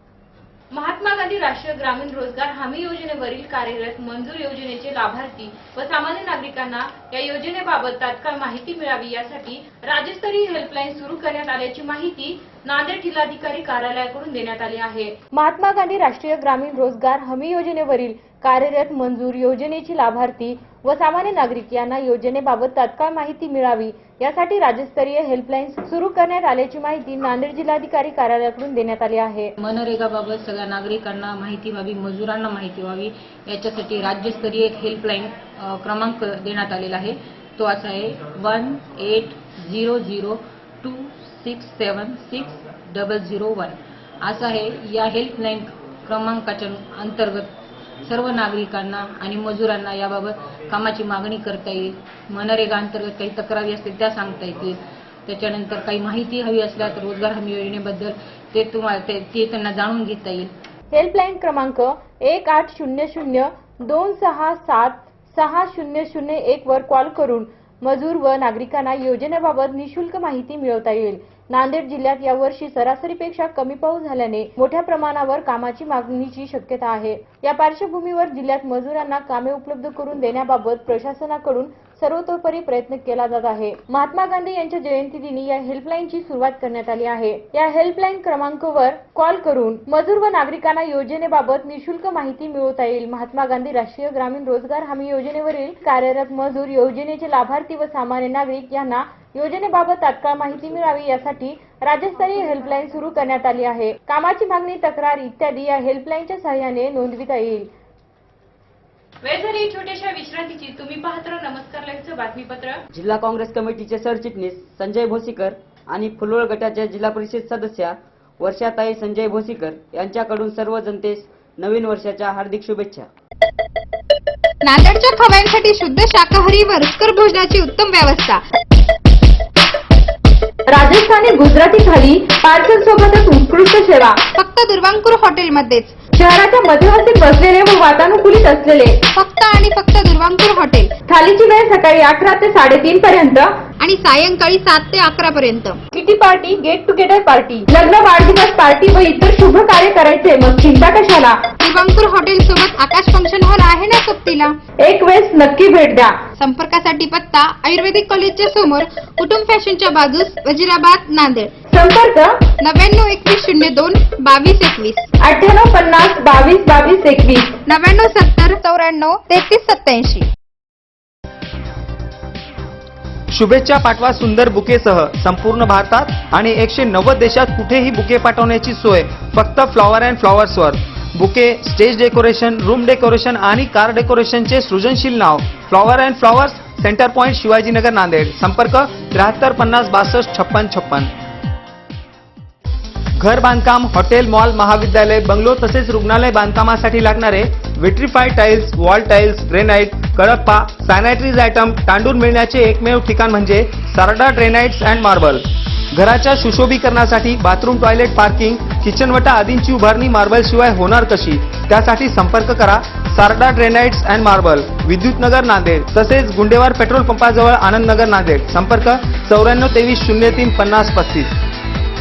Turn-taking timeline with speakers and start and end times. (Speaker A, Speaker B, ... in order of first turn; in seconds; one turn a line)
Speaker A: 0.7-29.5
Speaker B: 29.6-60.5
Speaker A: 60.9-107.7
Speaker A: 109.2-112.8
Speaker C: 112.9-123.1
Speaker D: 124.6-128.4
Speaker A: 130.7-134.2
Speaker D: 134.3-136.0
Speaker A: 136.1-139.0
Speaker D: 139.1-140.9
Speaker A: 141.1-143.5
Speaker D: 143.8-145.8
Speaker A: 145.9-151.5
Speaker D: 151.6-154.6
Speaker A: 154.8-156.2
Speaker D: 156.4-161.5
Speaker A: 161.7-162.4
Speaker D: 162.6-165.1
Speaker A: 165.2-167.6
Speaker D: 167.7-170.3
Speaker E: 173.3-191.1
Speaker E: 193.2-221.3